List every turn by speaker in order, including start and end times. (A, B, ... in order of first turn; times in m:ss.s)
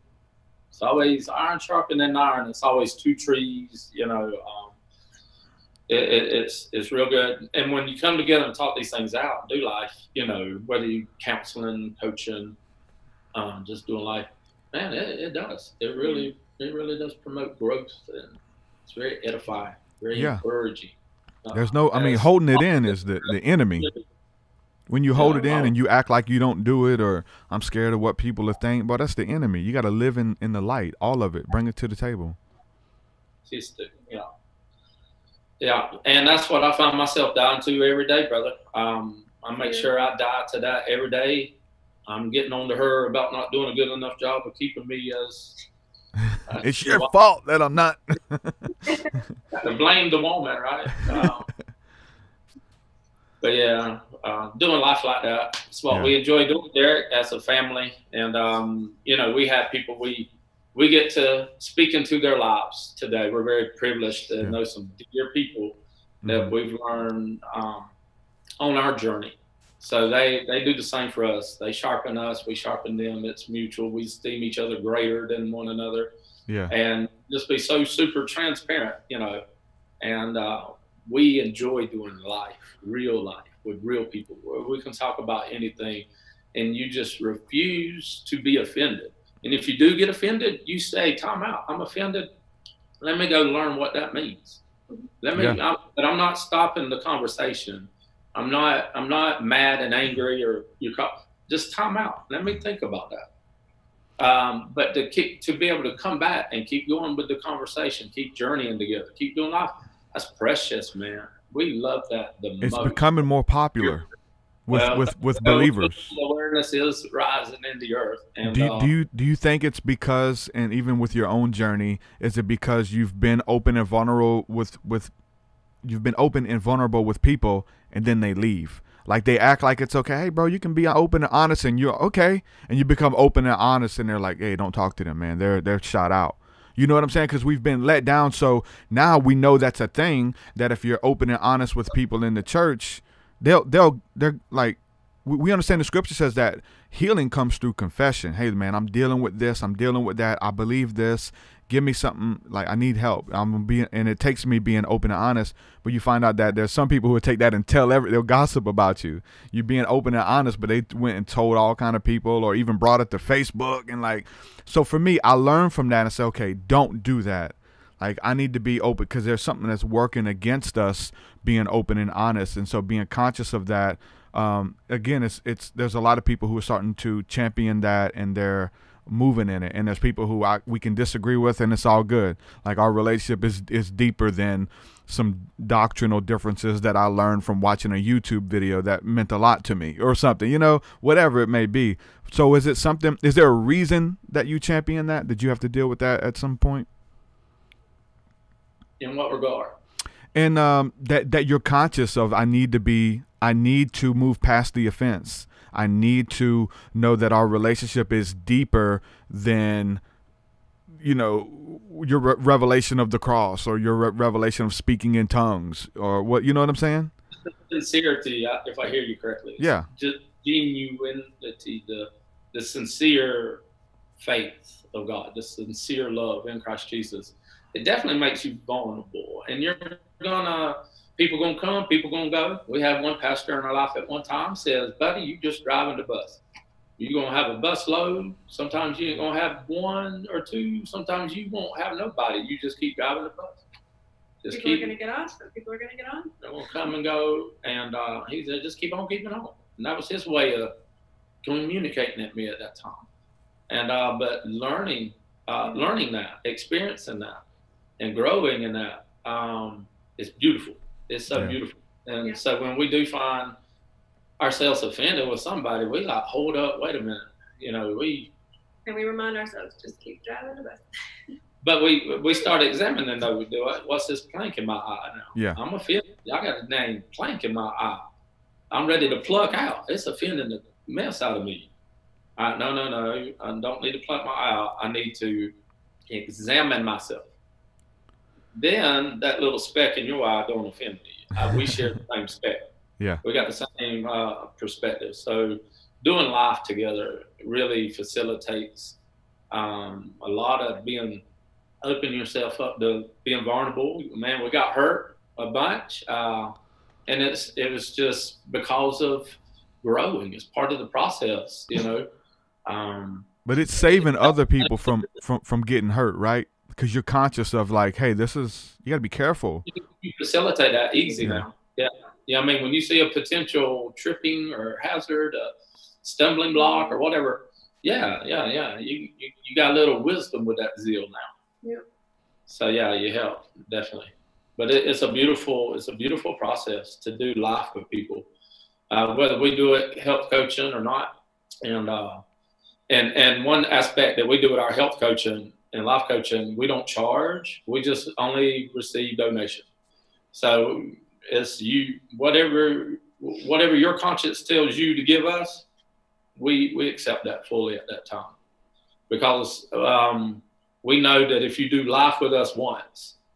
0:00.7-0:04.8 A
0:05.9-0:12.6 A
0:13.3-0:24.0 A
0:16.0-0:16.3 B
0:20.1-0:20.4 C
0:21.5-0:23.9 C
0:24.9-0:32.4 C
0:25.1-0:25.7 A
0:33.4-0:34.3 A
0:35.6-0:41.5 A
0:39.6-0:39.9 B
0:42.1-0:45.6 A
0:46.3-0:48.7 C
0:46.4-0:47.1 A
0:49.5-0:51.5 A
0:53.4-1:07.9 A
0:55.9-0:56.1 C
1:06.2-1:06.5 C
1:08.6-1:16.1 A
1:16.5-1:16.7 C
1:16.7-1:19.4 A
1:20.0-1:32.3 A
1:33.0-1:34.6 A
1:35.2-1:43.3 A
1:44.2-1:53.1 A
1:52.6-1:54.1 C
1:54.7-1:56.1 C
1:54.7-1:58.9 A
1:58.4-2:05.1 C
2:05.8-3:16.9 C
3:19.0-3:19.8 A
3:20.3-3:30.0 C
3:31.0-3:37.1 C
3:37.7-3:43.6 A
3:39.6-3:39.9 C
3:44.2-3:56.4 A
3:57.0-4:03.6 A
4:04.4-4:04.9 A
4:04.5-4:06.3 B
4:06.4-4:10.7 A
4:11.4-4:13.0 A
4:13.7-4:17.4 A
4:18.0-4:23.5 A
4:21.3-4:21.6 C
4:24.4-4:28.3 A
4:28.8-4:30.9 B
4:31.6-4:38.0 A
4:35.3-4:35.6 C
4:38.7-4:41.7 A
4:39.0-4:39.5 B
4:42.4-4:45.5 A
4:46.1-4:47.3 A
4:48.5-4:52.6 A
4:53.2-4:59.0 A
4:59.5-5:01.2 A
5:01.8-5:06.5 A
5:07.1-5:12.1 A
5:12.6-5:15.0 A
5:13.4-5:19.6 C
5:19.7-5:25.5 A
5:21.2-5:21.4 C
5:26.0-5:31.3 A
5:26.6-5:26.9 B
5:32.5-5:38.3 A
5:38.9-5:42.2 A
5:42.9-5:49.6 A
5:50.3-5:55.6 A
5:56.4-5:58.3 A
5:59.1-6:03.1 A